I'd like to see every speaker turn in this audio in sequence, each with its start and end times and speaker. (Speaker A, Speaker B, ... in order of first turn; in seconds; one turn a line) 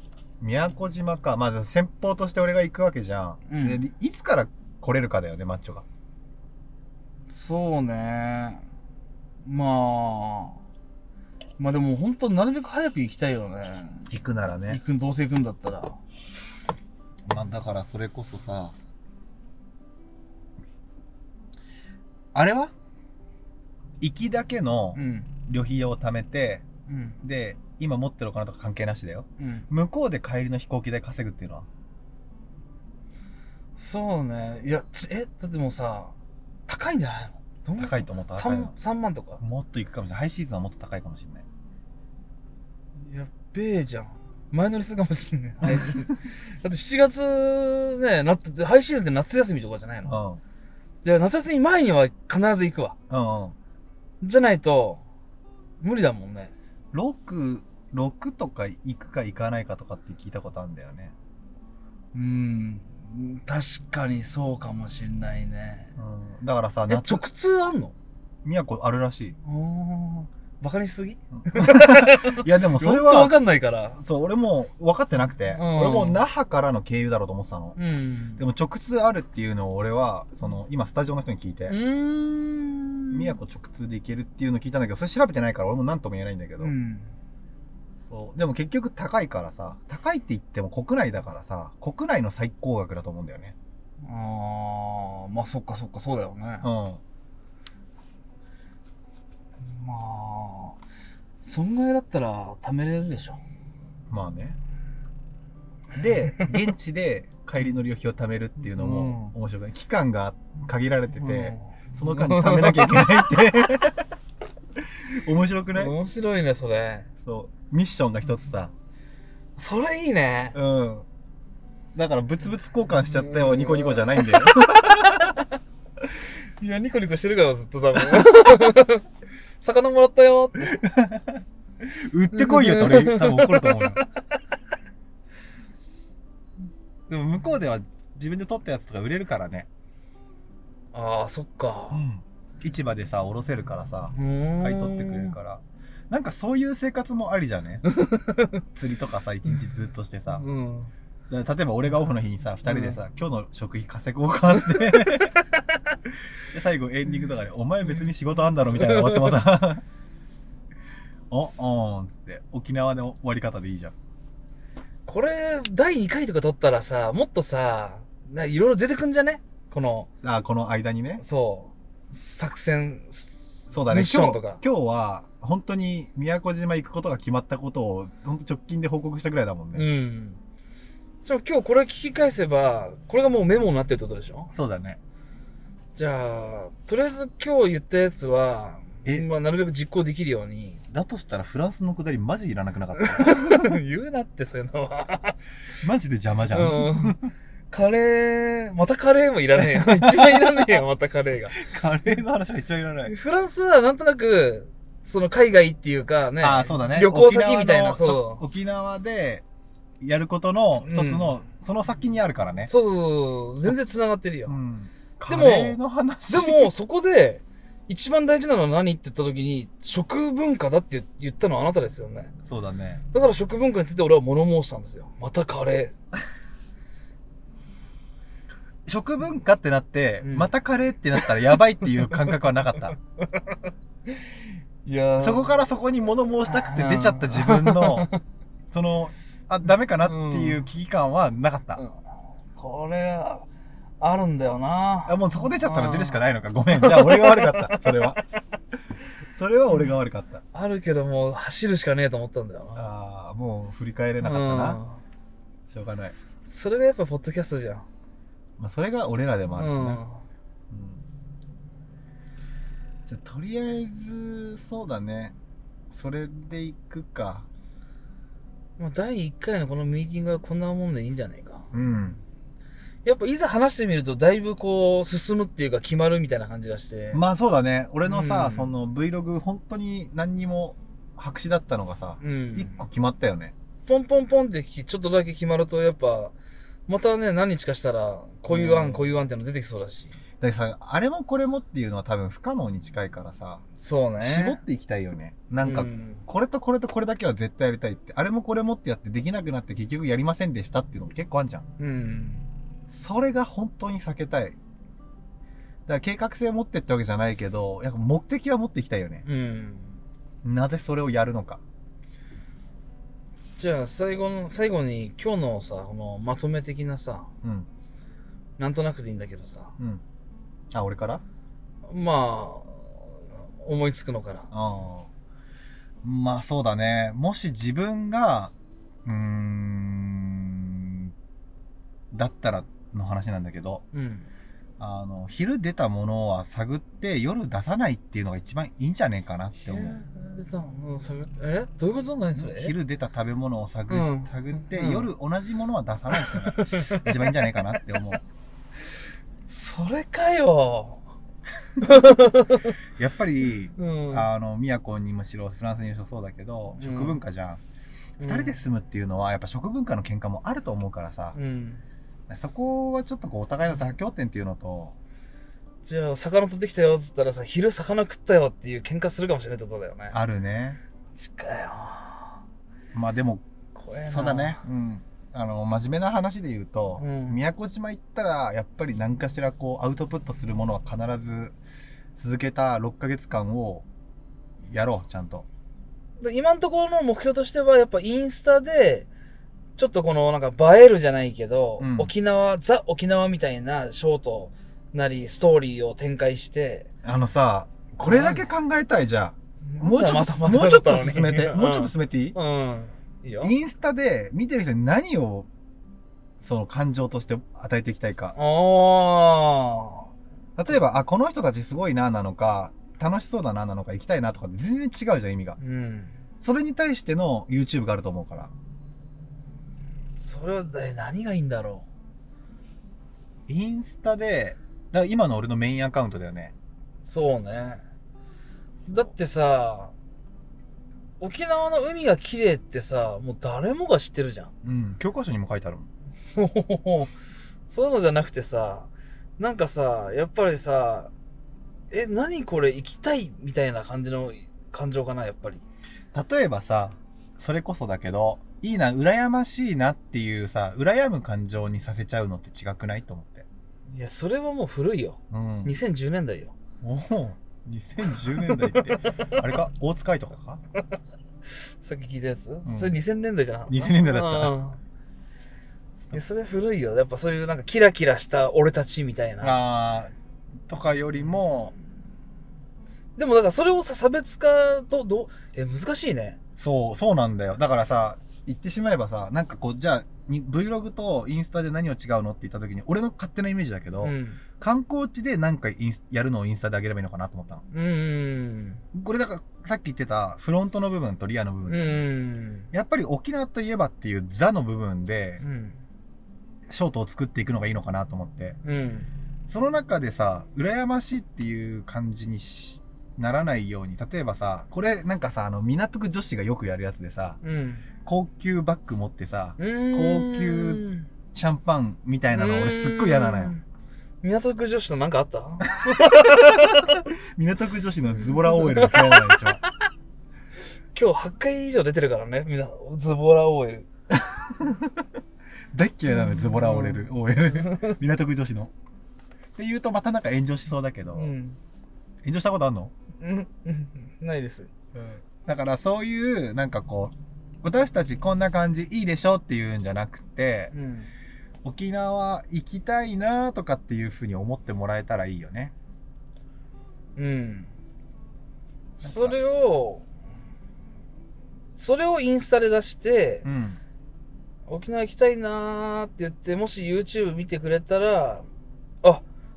Speaker A: 0.4-5.8
Speaker B: 3.5-3.8
Speaker B: 7.3-8.6
Speaker B: 9.4-10.6
Speaker B: 11.6-14.1
Speaker A: 14.1-14.8
Speaker B: 14.7-16.0
Speaker A: 17.3-18.7
Speaker A: 22.3-22.7
Speaker A: 24.0-26.6
Speaker B: 24.9-25.3
Speaker B: 26.9-27.2
Speaker A: 27.2-31.7
Speaker B: 29.4-29.7
Speaker B: 33.8-36.1
Speaker B: 36.7-39.4
Speaker A: 37.8-38.7
Speaker A: 39.4-41.4
Speaker B: 43.0-50.1
Speaker A: 45.6-46.2
Speaker A: 50.0-50.4
Speaker B: 51.0-53.0
Speaker A: 53.1-53.5
Speaker B: 54.2-55.0
Speaker B: 55.8-56.5
Speaker A: 56.9-61.1
Speaker B: 62.1-65.9
Speaker A: 66.0-67.2
Speaker B: 66.9-67.9
Speaker A: 68.4-69.4
Speaker B: 69.4-74.0
Speaker A: 71.3-73.4
Speaker A: 74.0-77.8
Speaker B: 75.5-76.2
Speaker B: 77.8-78.4
Speaker A: 78.4-81.8
Speaker B: 81.7-83.3
Speaker A: 83.1-86.7
Speaker B: 86.6-87.1
Speaker A: 87.9-93.5
Speaker B: 94.0-96.7
Speaker A: 96.6-97.0
Speaker B: 99.6-100.8
Speaker B: 101.4-103.4
Speaker A: 104.1-104.6
Speaker A: 105.9-114.1
Speaker B: 108.7-109.3
Speaker B: 111.2-113.7
Speaker A: 115.0-116.0
Speaker B: 115.7-117.1
Speaker A: 117.2-118.7
Speaker B: 119.6-120.5
Speaker A: 120.5-121.0
Speaker A: 121.9-125.4
Speaker B: 123.0-125.0
Speaker B: 126.2-129.1
Speaker B: 129.6-130.7
Speaker A: 130.6-134.0
Speaker B: 132.3-134.4
Speaker A: 137.1-139.7
Speaker B: 140.9-142.0
Speaker A: 141.9-147.8
Speaker B: 144.1-145.3
Speaker B: 147.9-148.6
Speaker A: 148.7-150.4
Speaker B: 150.3-150.9
Speaker A: 151.3-155.3
Speaker B: 152.7-153.0
Speaker B: 154.6-155.9
Speaker A: 156.5-159.8
Speaker B: 158.7-159.4
Speaker A: 161.3-163.9
Speaker B: 165.1-170.1
Speaker A: 170.2-171.2
Speaker B: 171.2-174.6
Speaker A: 173.7-179.9
Speaker B: 179.7-180.4
Speaker B: 181.2-184.5
Speaker A: 184.5-185.0
Speaker B: 185.9-190.8
Speaker A: 190.9-193.7
Speaker B: 192.9-195.4
Speaker A: 195.8-197.3
Speaker B: 196.5-197.2
Speaker B: 197.7-201.6
Speaker A: 199.6-200.8
Speaker A: 201.5-203.1
Speaker B: 203.1-208.4
Speaker A: 206.4-209.4
Speaker A: 210.0-212.7
Speaker B: 210.8-211.3
Speaker B: 212.7-214.6
Speaker A: 214.5-216.7
Speaker B: 215.3-222.3
Speaker A: 222.4-223.0
Speaker B: 223.1-225.9
Speaker A: 228.8-233.0
Speaker B: 230.2-230.5
Speaker B: 232.1-232.3
Speaker B: 233.2-235.6
Speaker A: 235.2-238.1
Speaker B: 236.5-238.2
Speaker A: 238.7-241.8
Speaker B: 240.1-240.7
Speaker B: 242.5-243.4
Speaker B: 244.0-248.2
Speaker A: 245.1-248.2
Speaker A: 249.3-250.4
Speaker B: 250.5-252.8
Speaker A: 252.8-254.8
Speaker B: 254.2-255.0
Speaker A: 255.7-256.1
Speaker B: 256.5-257.9
Speaker A: 258.6-260.0
Speaker B: 259.6-260.2
Speaker A: 260.7-261.0
Speaker A: 263.1-265.3
Speaker A: 265.9-267.5
Speaker B: 268.8-271.7
Speaker A: 271.7-272.2
Speaker B: 273.0-277.2
Speaker A: 277.1-283.5
Speaker B: 278.0-278.7
Speaker B: 282.2-282.8
Speaker B: 283.9-286.3
Speaker B: 286.9-290.2
Speaker A: 288.5-289.2
Speaker A: 290.4-293.6
Speaker B: 293.8-294.6
Speaker A: 294.2-301.6
Speaker B: 295.6-296.2
Speaker B: 301.8-302.4
Speaker A: 302.9-304.6
Speaker A: 305.9-309.2
Speaker B: 309.2-309.9
Speaker A: 310.4-311.6
Speaker B: 313.6-317.3
Speaker A: 317.4-317.7
Speaker B: 318.6-319.7
Speaker A: 319.8-320.0
Speaker A: 320.7-321.2
Speaker B: 321.9-324.5
Speaker A: 324.5-325.1
Speaker A: 326.0-328.5
Speaker A: 329.0-331.1
Speaker A: 332.1-333.8
Speaker B: 333.9-334.3
Speaker A: 334.8-340.0
Speaker B: 339.6-342.7
Speaker A: 342.3-348.2
Speaker B: 343.9-345.1
Speaker B: 346.1-347.5
Speaker B: 349.5-351.0
Speaker B: 351.8-352.7
Speaker A: 353.0-357.6
Speaker B: 353.8-354.2
Speaker B: 356.8-357.2
Speaker B: 358.2-358.6
Speaker A: 358.2-361.4
Speaker B: 361.3-361.8
Speaker A: 362.3-364.9
Speaker B: 365.9-370.1
Speaker A: 370.1-370.8
Speaker B: 371.1-372.4
Speaker A: 372.9-373.4
Speaker B: 373.7-374.6
Speaker A: 374.1-381.6
Speaker B: 377.0-377.4
Speaker A: 382.1-383.9
Speaker A: 384.6-385.4
Speaker B: 386.2-389.1
Speaker B: 389.8-396.9
Speaker A: 391.8-392.1
Speaker A: 397.0-402.4
Speaker B: 398.0-398.5
Speaker B: 399.7-403.5
Speaker A: 403.4-405.5
Speaker A: 406.4-408.4
Speaker B: 408.4-410.1
Speaker A: 410.6-415.6
Speaker B: 415.6-416.1
Speaker A: 416.4-418.5
Speaker B: 420.2-421.9
Speaker A: 423.5-426.5
Speaker B: 427.1-427.8
Speaker B: 428.9-429.9
Speaker B: 431.2-434.5
Speaker A: 434.6-435.9
Speaker B: 436.3-437.1
Speaker B: 437.7-441.1
Speaker B: 441.9-445.6
Speaker A: 446.1-453.4
Speaker B: 453.9-456.5
Speaker A: 455.3-455.8
Speaker A: 456.8-460.6
Speaker B: 458.1-459.3
Speaker B: 461.5-464.8
Speaker A: 462.6-463.0
Speaker A: 463.7-464.6
Speaker B: 466.1-469.6
Speaker A: 469.4-470.1
Speaker A: 470.7-471.7
Speaker B: 473.1-476.4
Speaker A: 476.6-487.6
Speaker B: 484.0-484.4
Speaker B: 487.7-488.8
Speaker A: 488.9-492.0
Speaker B: 491.7-492.7
Speaker A: 492.7-495.4
Speaker B: 495.4-495.8
Speaker A: 496.7-498.6
Speaker B: 498.6-499.1
Speaker A: 499.5-507.4
Speaker B: 507.4-507.9
Speaker A: 508.0-513.5
Speaker B: 509.6-511.1
Speaker B: 512.3-513.6
Speaker B: 514.2-517.0
Speaker A: 515.7-519.6
Speaker B: 518.1-519.5
Speaker B: 520.9-523.9
Speaker A: 524.1-525.0
Speaker A: 525.7-528.7
Speaker B: 526.1-527.9
Speaker A: 529.5-531.3
Speaker B: 531.1-531.6
Speaker A: 532.2-532.9
Speaker B: 533.2-534.7
Speaker A: 534.9-540.7
Speaker B: 540.7-541.1
Speaker A: 541.6-545.7
Speaker B: 547.1-547.7
Speaker B: 549.0-550.0
Speaker A: 549.0-549.4
Speaker B: 551.8-553.5
Speaker A: 553.4-553.8
Speaker B: 554.7-558.5